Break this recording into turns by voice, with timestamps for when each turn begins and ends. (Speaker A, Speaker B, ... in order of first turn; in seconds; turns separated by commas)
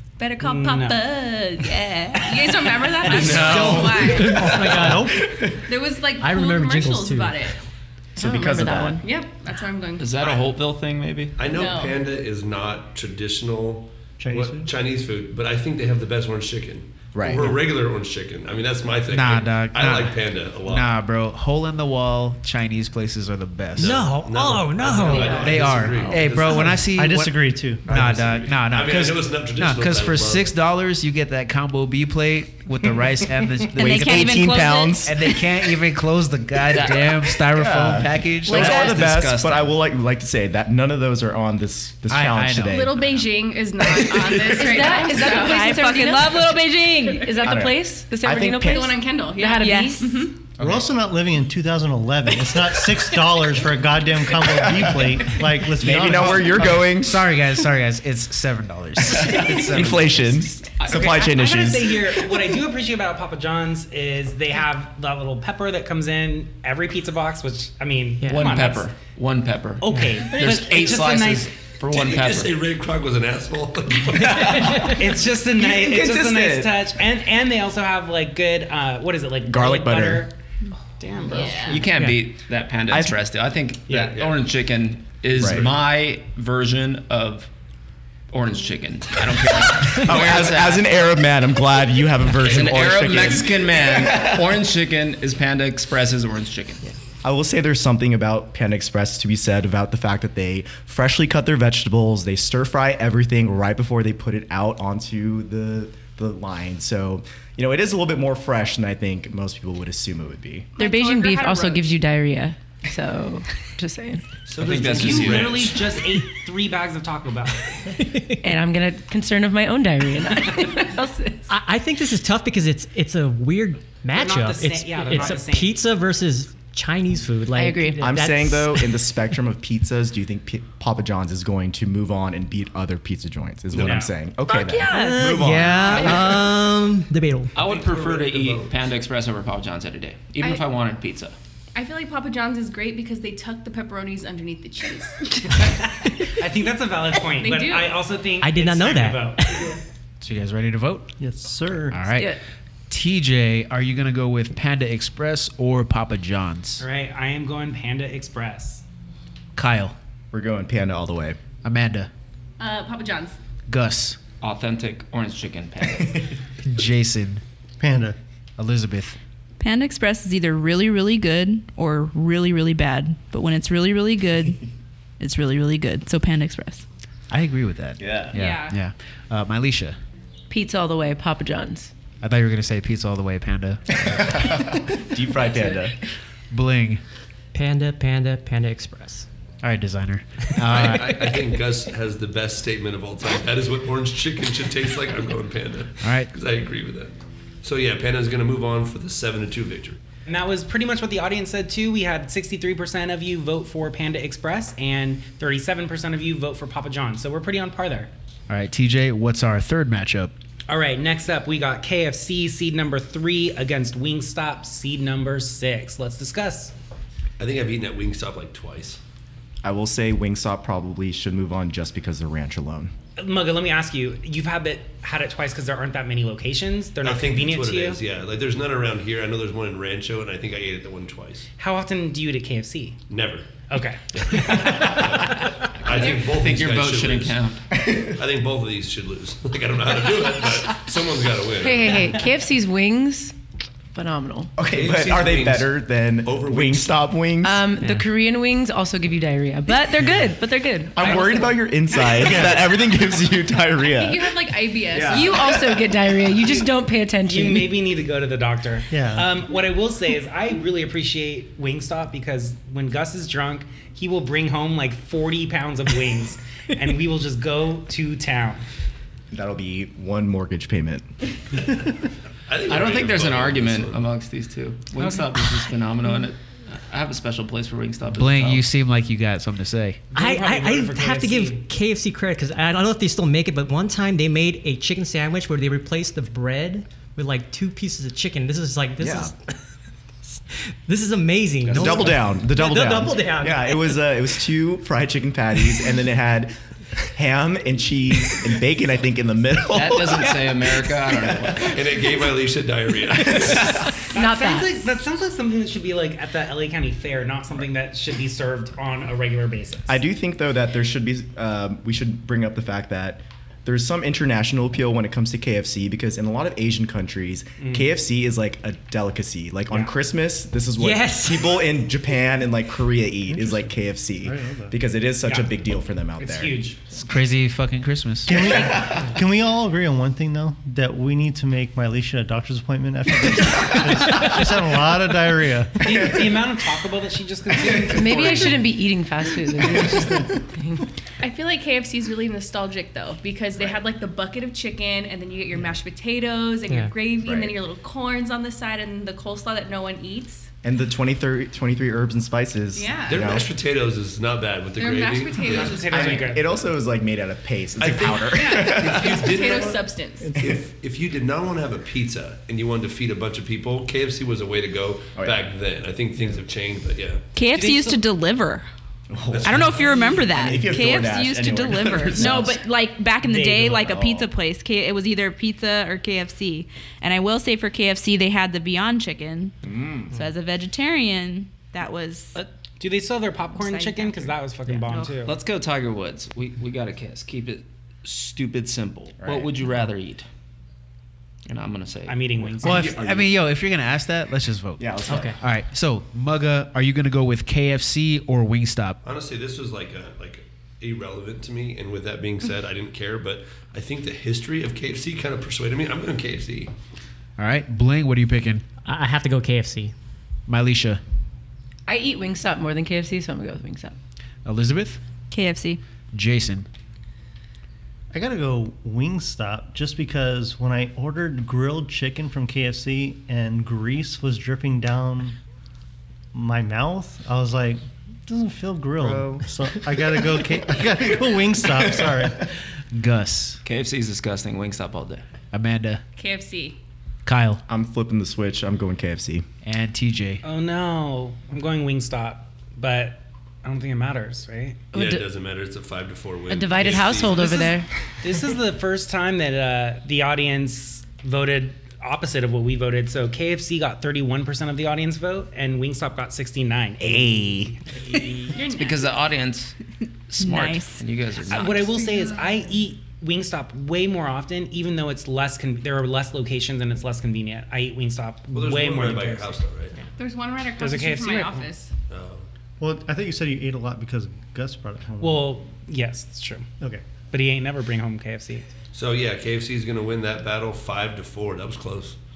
Speaker A: 0.2-4.2, Speaker B: 0.4-4.5, Speaker C: 3.0-5.6, Speaker D: 3.1-3.9, Speaker E: 4.2-5.1, Speaker F: 4.3-5.3, Speaker A: 5.6-7.5, Speaker E: 6.2-7.4, Speaker G: 8.2-9.1, Speaker C: 8.2-9.0, Speaker A: 9.0-10.5, Speaker D: 10.0-11.4, Speaker H: 11.4-20.9, Speaker A: 11.4-12.0, Speaker F: 14.2-14.7, Speaker C: 17.1-17.6, Speaker I: 19.1-24.0, Speaker E: 23.8-25.9, Speaker H: 23.8-26.8, Speaker I: 25.4-34.5, Speaker F: 26.4-27.9, Speaker C: 27.9-28.4, Speaker H: 28.2-30.5, Speaker J: 33.8-35.1, Speaker C: 33.8-35.4, Speaker I: 35.0-38.9, Speaker D: 36.7-37.3, Speaker C: 37.5-43.2, Speaker D: 38.4-39.7, Speaker I: 42.1-43.0, Speaker A: 42.6-45.6, Speaker G: 43.9-50.3, Speaker C: 44.0-44.5, Speaker J: 45.0-47.4, Speaker C: 47.4-48.9, Speaker A: 48.6-50.3, Speaker J: 49.6-50.3, Speaker F: 50.6-56.8, Speaker C: 54.4-55.2, Speaker C: 55.8-57.2, Speaker I: 56.6-60.4, Speaker C: 59.1-62.1, Speaker D: 59.7-61.3, Speaker B: 60.9-68.9, Speaker E: 68.2-68.5, Speaker D: 68.2-72.6, Speaker B: 69.8-71.5, Speaker H: 71.9-74.8, Speaker C: 74.2-74.8, Speaker B: 74.3-80.3, Speaker C: 75.5-76.9, Speaker C: 79.4-80.3, Speaker B: 81.0-81.8, Speaker D: 81.2-87.5, Speaker A: 81.3-81.8, Speaker I: 82.0-82.2, Speaker B: 83.9-84.2, Speaker H: 84.1-84.4, Speaker C: 85.3-85.6, Speaker H: 85.4-85.8, Speaker D: 88.3-90.9, Speaker C: 89.7-94.6, Speaker D: 92.4-96.8, Speaker C: 97.2-110.7, Speaker A: 110.8-111.9, Speaker G: 110.8-114.2, Speaker H: 114.5-116.0, Speaker D: 114.6-115.7, Speaker B: 114.7-117.9, Speaker E: 118.0-118.4, Speaker G: 118.4-121.5, Speaker E: 121.5-129.0, Speaker B: 124.1-125.8, Speaker G: 127.5-128.2, Speaker C: 128.0-136.3, Speaker H: 133.7-134.1, Speaker B: 133.8-134.1, Speaker G: 134.4-135.6, Speaker E: 134.9-137.5, Speaker H: 135.9-136.2, Speaker D: 137.5-141.3, Speaker H: 137.6-138.7, Speaker A: 140.4-140.6, Speaker A: 141.7-145.5, Speaker B: 145.5-149.8, Speaker A: 147.4-148.0, Speaker E: 148.4-149.7, Speaker I: 150.2-151.1, Speaker F: 151.2-152.0, Speaker I: 151.9-152.3, Speaker G: 152.1-152.4, Speaker I: 152.9-156.8, Speaker B: 156.8-158.8, Speaker I: 159.6-159.9, Speaker C: 160.3-161.4, Speaker I: 161.6-162.1, Speaker A: 162.6-163.4, Speaker I: 163.7-164.2, Speaker D: 164.4-166.3, Speaker I: 166.6-167.4, Speaker F: 167.8-168.2, Speaker I: 168.6-169.2, Speaker J: 169.6-174.6, Speaker J: 175.2-176.8, Speaker I: 177.3-180.0, Speaker C: 178.0-178.3, Speaker A: 178.3-178.8, Speaker G: 180.5-181.9, Speaker I: 182.2-184.7, Speaker C: 184.1-185.9, Speaker I: 186.5-187.0, Speaker E: 187.5-189.3, Speaker I: 189.6-191.4, Speaker H: 190.7-197.1, Speaker I: 196.0-196.3, Speaker H: 197.6-200.0, Speaker B: 200.2-208.1, Speaker I: 208.5-210.3, Speaker B: 210.7-216.7, Speaker H: 217.4-219.0, Speaker C: 219.6-222.9, Speaker B: 223.2-228.0, Speaker H: 227.0-231.5, Speaker B: 231.6-233.0, Speaker H: 233.1-233.6, Speaker B: 233.7-235.6, Speaker H: 234.1-237.5, Speaker D: 235.9-237.6, Speaker C: 237.8-238.1, Speaker H: 238.0-242.1, Speaker G: 241.6-243.3, Speaker G: 243.9-244.5, Speaker C: 244.6-247.7, Speaker H: 244.7-247.0, Speaker G: 247.4-251.5, Speaker E: 247.8-248.0, Speaker C: 250.9-256.5, Speaker B: 251.0-251.6, Speaker A: 253.8-255.5, Speaker G: 255.1-257.8, Speaker B: 257.3-268.6, Speaker F: 258.9-259.3, Speaker C: 269.3-271.1, Speaker H: 272.5-274.1, Speaker D: 272.7-278.7, Speaker B: 275.0-275.2, Speaker I: 278.1-280.0, Speaker B: 280.1-281.7, Speaker E: 280.1-289.4, Speaker C: 289.0-289.3, Speaker E: 290.9-294.0, Speaker D: 291.6-292.0, Speaker C: 291.7-301.8, Speaker D: 299.7-301.8, Speaker H: 301.6-303.9, Speaker C: 303.2-303.7, Speaker G: 304.1-304.9, Speaker B: 304.1-310.0, Speaker C: 309.9-326.6, Speaker B: 317.6-317.9, Speaker B: 320.8-321.5, Speaker F: 323.3-323.7, Speaker F: 324.2-324.7, Speaker B: 325.2-325.6, Speaker B: 326.2-326.8, Speaker I: 326.9-328.5, Speaker F: 328.2-336.2, Speaker C: 328.6-329.0, Speaker B: 335.8-338.8, Speaker G: 337.8-340.9, Speaker A: 341.2-350.5, Speaker E: 346.7-346.9, Speaker C: 347.2-347.6, Speaker C: 350.6-353.5, Speaker A: 352.7-353.2, Speaker H: 353.1-356.3, Speaker A: 354.8-356.1, Speaker B: 355.4-356.6, Speaker C: 355.8-359.4, Speaker H: 357.8-367.2, Speaker A: 358.3-360.3, Speaker C: 360.4-360.6, Speaker C: 365.1-365.5, Speaker J: 367.3-368.7, Speaker B: 367.5-368.0, Speaker C: 369.1-372.6, Speaker H: 369.3-370.2, Speaker J: 369.4-379.6, Speaker B: 372.2-372.5, Speaker B: 373.2-374.0, Speaker C: 373.9-374.3, Speaker C: 379.6-380.1, Speaker J: 380.1-382.4, Speaker B: 382.3-385.4, Speaker J: 383.5-385.1, Speaker D: 385.2-390.2, Speaker C: 389.2-389.5, Speaker D: 391.4-392.6, Speaker B: 392.1-393.0, Speaker I: 392.6-399.0, Speaker C: 392.6-393.3, Speaker C: 394.8-395.4, Speaker E: 395.1-395.4, Speaker H: 399.0-406.7, Speaker I: 407.4-408.6, Speaker E: 408.8-409.9, Speaker I: 410.5-411.0, Speaker G: 411.9-413.9, Speaker I: 414.4-415.0, Speaker J: 415.3-415.8, Speaker I: 416.1-416.6, Speaker F: 418.1-425.4, Speaker F: 426.3-432.4, Speaker C: 429.0-429.4, Speaker I: 432.9-433.6, Speaker D: 433.6-435.2, Speaker I: 435.5-436.0, Speaker A: 436.1-436.8, Speaker I: 437.2-437.6, Speaker C: 437.7-439.4, Speaker I: 439.6-440.4, Speaker B: 440.4-444.9, Speaker G: 444.9-445.2, Speaker H: 444.9-447.7, Speaker G: 446.5-447.9, Speaker B: 448.2-458.5, Speaker I: 457.0-457.7, Speaker A: 458.5-459.0, Speaker D: 458.6-459.7, Speaker D: 460.3-462.1, Speaker J: 460.4-461.0, Speaker B: 461.4-469.6, Speaker H: 468.5-470.0, Speaker A: 470.2-471.9, Speaker B: 470.8-471.7, Speaker H: 472.1-472.5, Speaker F: 472.8-475.5, Speaker B: 475.2-478.6, Speaker F: 476.8-477.1, Speaker H: 478.9-482.2